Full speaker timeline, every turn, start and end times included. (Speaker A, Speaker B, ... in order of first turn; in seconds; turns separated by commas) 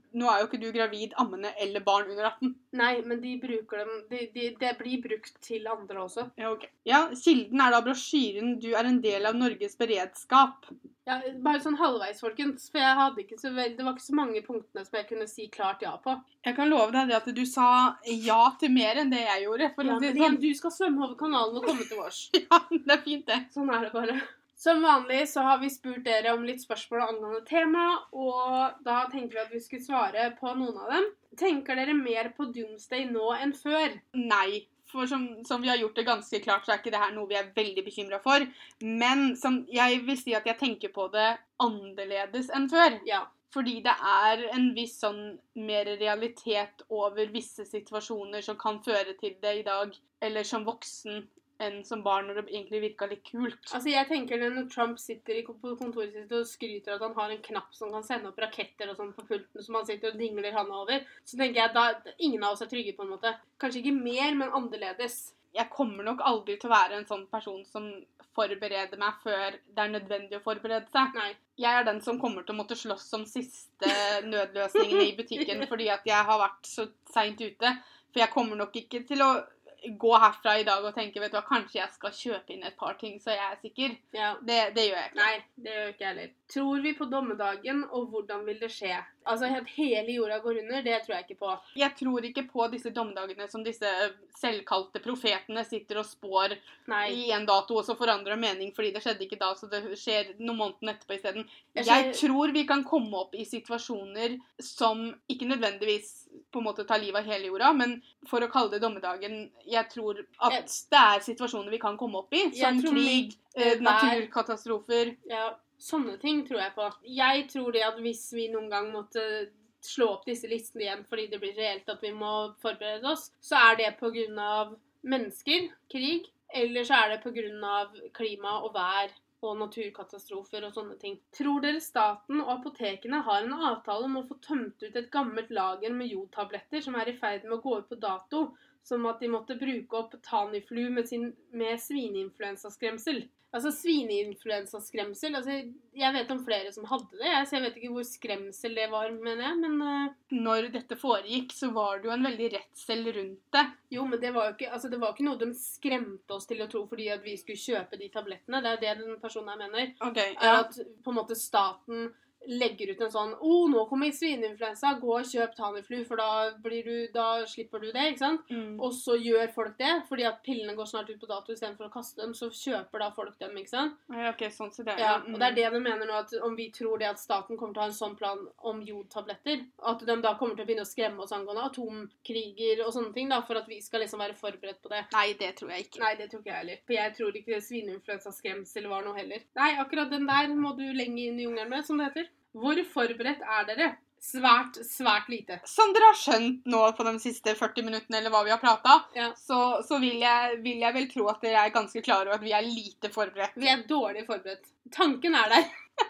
Speaker A: 0.1-2.6, Speaker B: 2.7-6.3, Speaker A: 6.4-10.7, Speaker B: 11.1-16.2, Speaker A: 16.4-20.4, Speaker B: 19.8-22.3, Speaker A: 22.3-23.4, Speaker B: 23.5-34.0, Speaker A: 34.1-53.7, Speaker B: 43.0-43.3, Speaker B: 53.7-65.3, Speaker A: 65.5-85.3, Speaker B: 74.8-75.7, Speaker B: 84.1-84.4, Speaker B: 85.1-91.6, Speaker A: 91.8-115.2, Speaker B: 96.9-97.2, Speaker B: 101.7-102.2, Speaker B: 112.5-114.2, Speaker B: 115.2-150.1, Speaker A: 150.3-153.7, Speaker B: 153.9-174.0, Speaker A: 160.0-160.7, Speaker A: 168.5-168.8, Speaker A: 174.1-175.6, Speaker B: 175.0-185.1, Speaker A: 185.1-186.0, Speaker B: 186.0-195.6, Speaker A: 195.6-203.7, Speaker B: 203.6-205.7